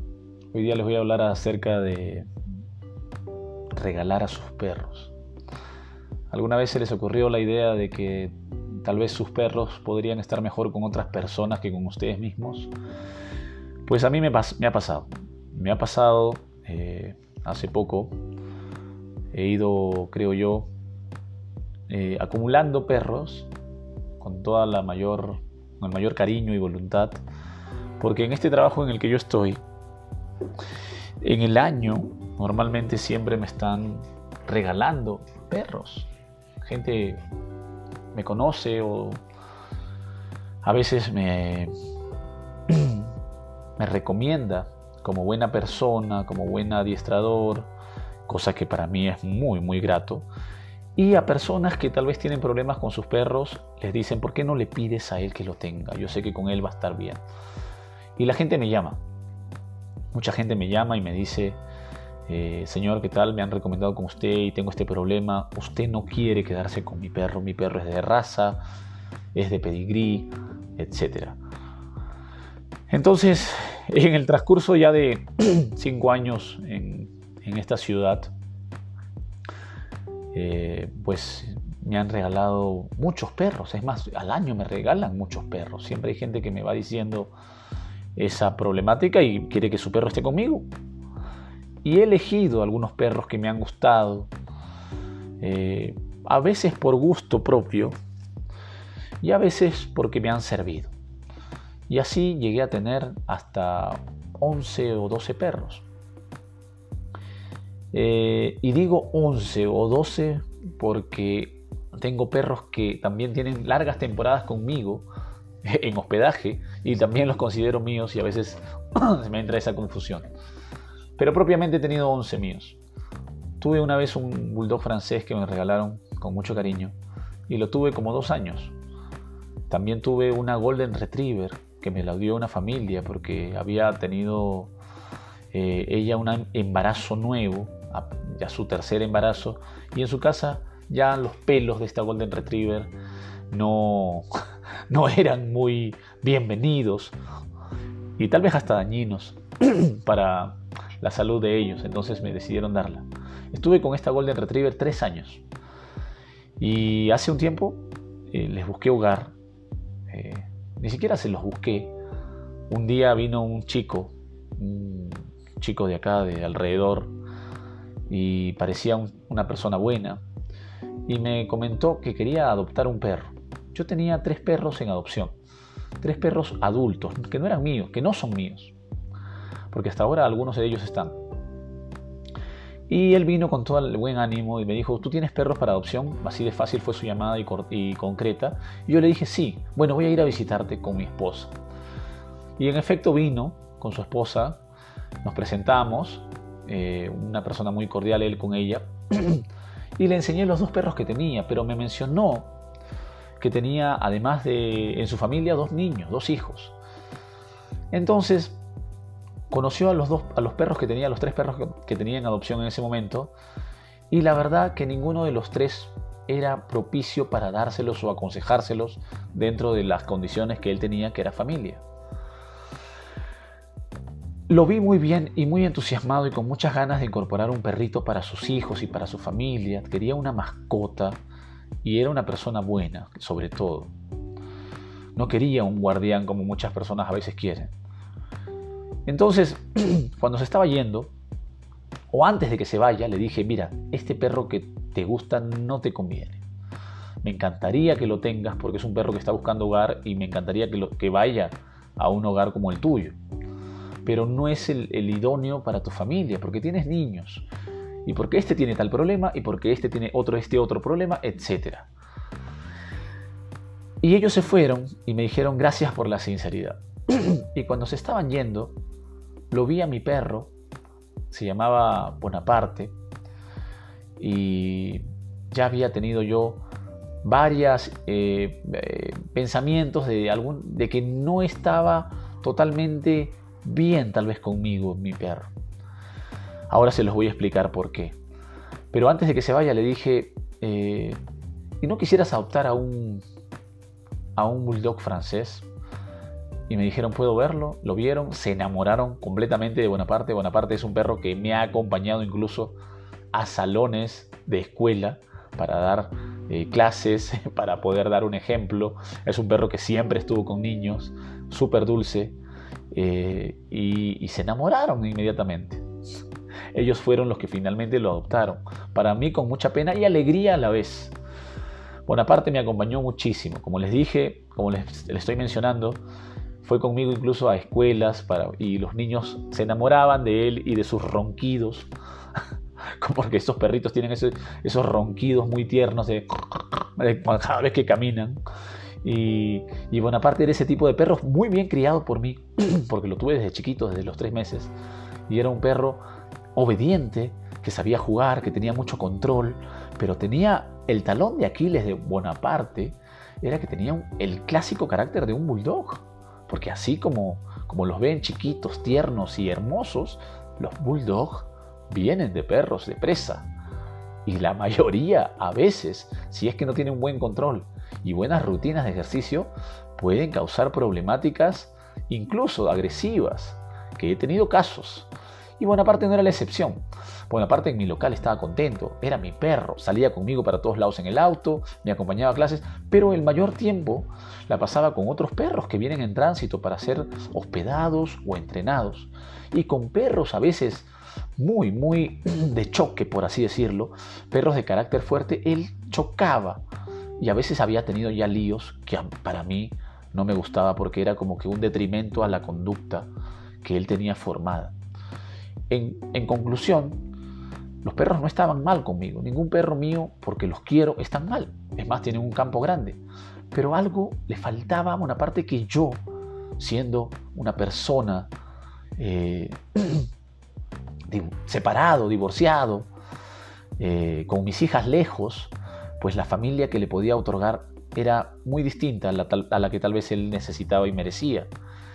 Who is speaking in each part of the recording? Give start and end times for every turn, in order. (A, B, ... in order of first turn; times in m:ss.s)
0:00.5-0:02.3 A
0:03.7-0:05.1 A
0:06.3-0:12.7 A
0:13.8-0:18.2 A
0:19.3-0:20.7 A
0:21.9-0:23.5 A
0:24.2-0:27.2 A
0:28.0-0:29.6 A
0:31.2-0:36.1 A
0:36.6-0:37.2 A
0:38.1-0:39.2 A
0:40.6-0:41.7 A
0:42.7-0:43.1 A
0:43.8-0:47.7 A
0:48.3-0:50.3 A
0:51.0-0:57.2 A
0:58.2-0:59.0 A
1:00.1-1:01.6 A
1:02.3-1:08.6 A
1:09.3-1:11.4 A
1:12.9-1:18.3 A
1:20.3-1:27.3 A
1:28.2-1:30.7 A
1:31.8-1:34.3 A
1:35.4-1:38.0 A
1:39.2-1:40.9 A
1:41.9-1:45.9 A
1:47.9-1:55.1 A
1:55.6-2:00.3 A
2:01.2-2:02.8 A
2:03.6-2:06.9 A
2:07.5-2:08.8 A
2:09.7-2:14.7 A
2:15.5-2:22.9 A
2:23.5-2:24.3 A
2:24.9-2:27.2 A
2:28.2-2:35.4 A
2:36.6-2:39.3 A
2:40.1-2:41.9 A
2:42.7-2:47.1 A
2:48.1-2:50.2 A
2:51.1-2:55.4 A
2:56.0-2:58.8 A
2:59.7-3:01.2 A
3:02.9-3:11.5 A
3:12.6-3:14.6 A
3:15.2-3:19.5 A
3:20.0-3:22.5 A
3:23.4-3:26.8 A
3:27.9-3:28.6 A
3:29.5-3:33.3 A
3:34.1-3:41.8 A
3:44.5-3:51.2 A
3:51.8-3:53.9 A
3:55.2-3:57.7 A
3:59.1-4:01.1 A
4:02.1-4:06.4 A
4:07.2-4:13.2 A
4:14.0-4:17.5 A
4:18.1-4:21.9 A
4:24.0-4:28.7 A
4:29.5-4:30.5 A
4:31.3-4:32.9 A
4:34.2-4:36.6 A
4:37.2-4:45.5 A
4:46.7-4:48.2 A
4:48.9-4:51.2 A
4:51.8-4:53.2 A
4:54.4-4:55.7 A
4:56.7-5:02.8 A
5:03.3-5:12.4 A
5:12.9-5:15.8 A
5:16.7-5:21.2 A
5:22.1-5:26.0 A
5:26.6-5:31.9 A
5:33.0-5:38.4 A
5:39.0-5:44.7 A
5:45.3-5:46.0 A
5:46.6-6:03.5 A
6:04.2-6:36.6 A
6:37.2-6:43.1 A
6:43.6-6:44.8 A
6:45.7-6:47.0 A
6:47.8-6:56.0 A
6:56.6-6:58.3 A
6:59.0-7:00.1 A
7:01.1-7:02.9 A
7:03.8-7:11.5 A